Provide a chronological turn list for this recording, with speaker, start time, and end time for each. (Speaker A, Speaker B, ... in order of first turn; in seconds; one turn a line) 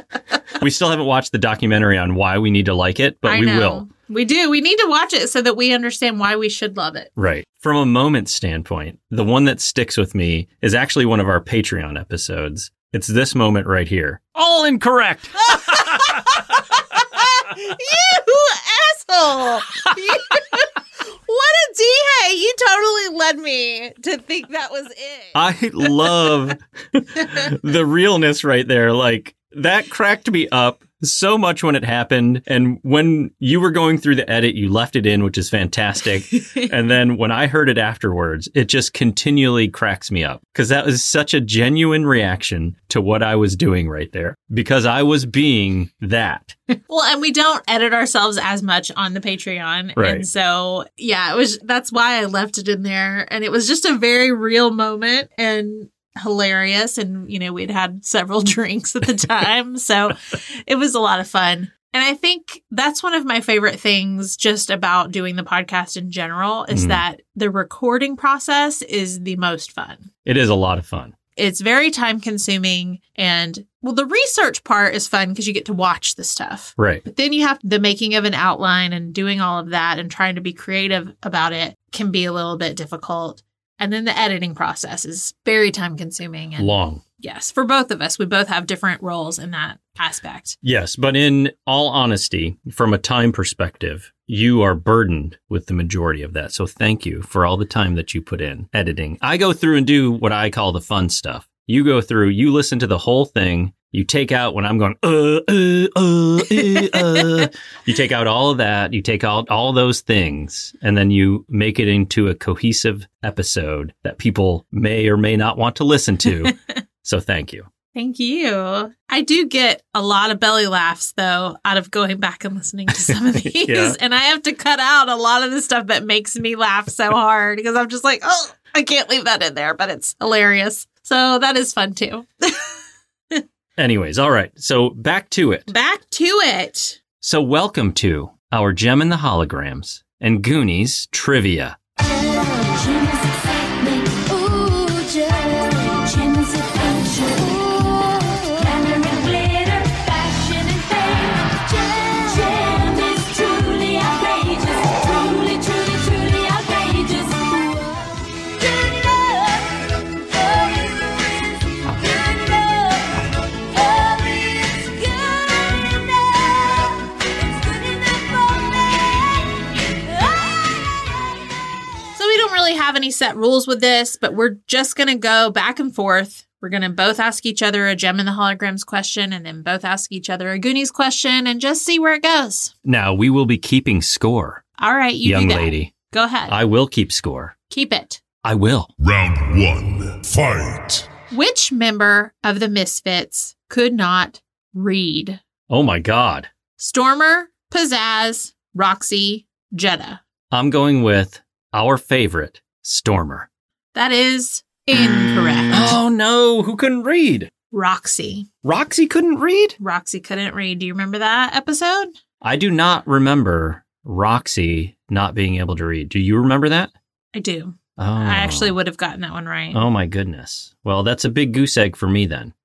Speaker A: 0.6-3.9
Speaker B: 3.2-7.1
Speaker A: 7.2-16.5
Speaker B: 15.5-26.1
Speaker A: 25.3-46.5
Speaker B: 36.4-36.7
Speaker B: 46.9-70.1
Speaker A: 50.0-50.2
Speaker A: 66.7-67.0
Speaker A: 70.2-71.1
Speaker B: 71.3-90.6
Speaker A: 76.8-77.0
Speaker A: 86.6-87.0
Speaker A: 90.6-117.7
Speaker B: 106.5-107.3
Speaker B: 116.4-116.7
Speaker B: 117.9-132.6
Speaker A: 123.1-124.0
Speaker A: 133.8-135.7
Speaker B: 135.7-137.0
Speaker A: 137.2-141.8
Speaker C: 142.1-171.2
Speaker B: 172.2-182.7
Speaker A: 182.8-184.6
Speaker B: 184.8-186.6
Speaker A: 185.2-185.9
Speaker A: 186.5-187.5
Speaker B: 187.7-188.2
Speaker A: 188.4-188.9
Speaker D: 189.0-191.1
Speaker B: 191.3-195.4
Speaker A: 195.7-196.5
Speaker B: 196.8-200.2
Speaker A: 200.5-203.5
Speaker B: 203.9-206.0
Speaker A: 205.7-207.5
Speaker B: 207.7-208.5
Speaker A: 208.6-209.8
Speaker B: 209.8-212.1
Speaker A: 212.4-216.9
Speaker B: 217.3-219.8
Speaker A: 218.0-218.8
Speaker A: 219.7-222.5